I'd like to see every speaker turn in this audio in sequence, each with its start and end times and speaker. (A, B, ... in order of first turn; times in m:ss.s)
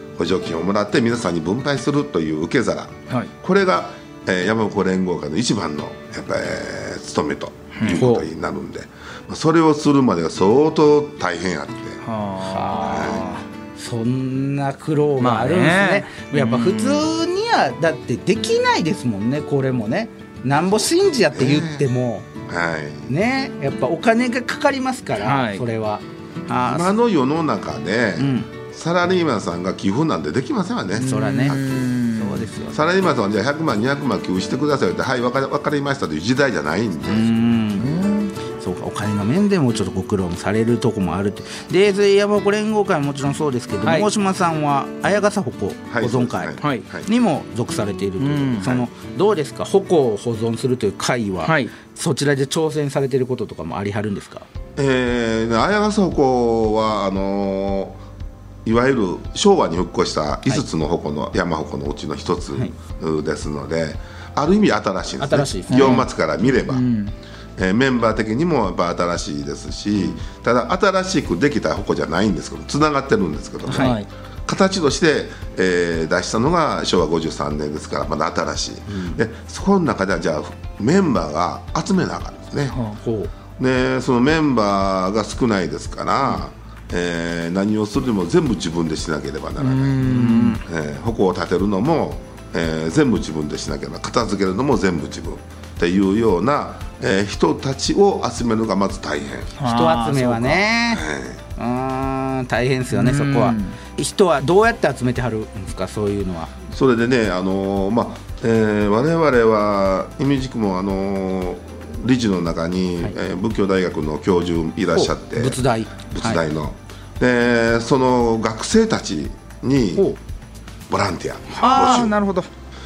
0:00.2-0:12.0 A
0:07.8-0:08.1 B
0:07.9-0:08.3 C
0:12.0-0:13.2 B
0:12.5-0:22.3 C
0:12.9-0:13.2 A
0:15.2-0:17.1 B
0:21.3-0:21.9 A
0:22.5-0:23.1 A
0:23.1-0:26.9 C
0:25.2-0:25.6 B
0:26.7-0:31.8 A
0:28.2-0:28.5 C
0:31.0-0:31.6 C
0:31.0-0:32.5 B
0:32.2-0:32.8 C
0:32.7-0:37.3 A
0:37.1-0:38.0 C
0:37.8-0:38.3 B
0:38.5-0:54.5 C
0:43.8-0:44.1 B
0:45.9-0:47.1 A
0:48.2-0:48.8 B
0:51.4-0:51.7 B
0:54.8-0:58.0 A
0:58.6-1:06.9 A
1:05.2-1:06.0 C
1:05.7-1:07.1 B
1:07.6-1:22.8 A
1:13.7-1:14.0 C
1:13.7-1:14.1 B
1:18.9-1:19.2 C
1:22.9-1:23.3 C
1:23.6-1:30.1 A
1:29.6-1:30.6 B
1:30.0-1:30.6 C
1:30.6-1:39.6 A
1:39.6-1:40.6 B
1:39.6-1:41.0 C
1:40.9-1:41.4 A
1:41.6-1:46.5 C
1:42.9-1:43.8 B
1:46.7-1:55.6 A
1:54.9-1:56.4 C
1:56.1-2:00.1 A
2:00.9-2:02.1 A
2:01.6-2:02.5 C
2:01.6-2:02.2 B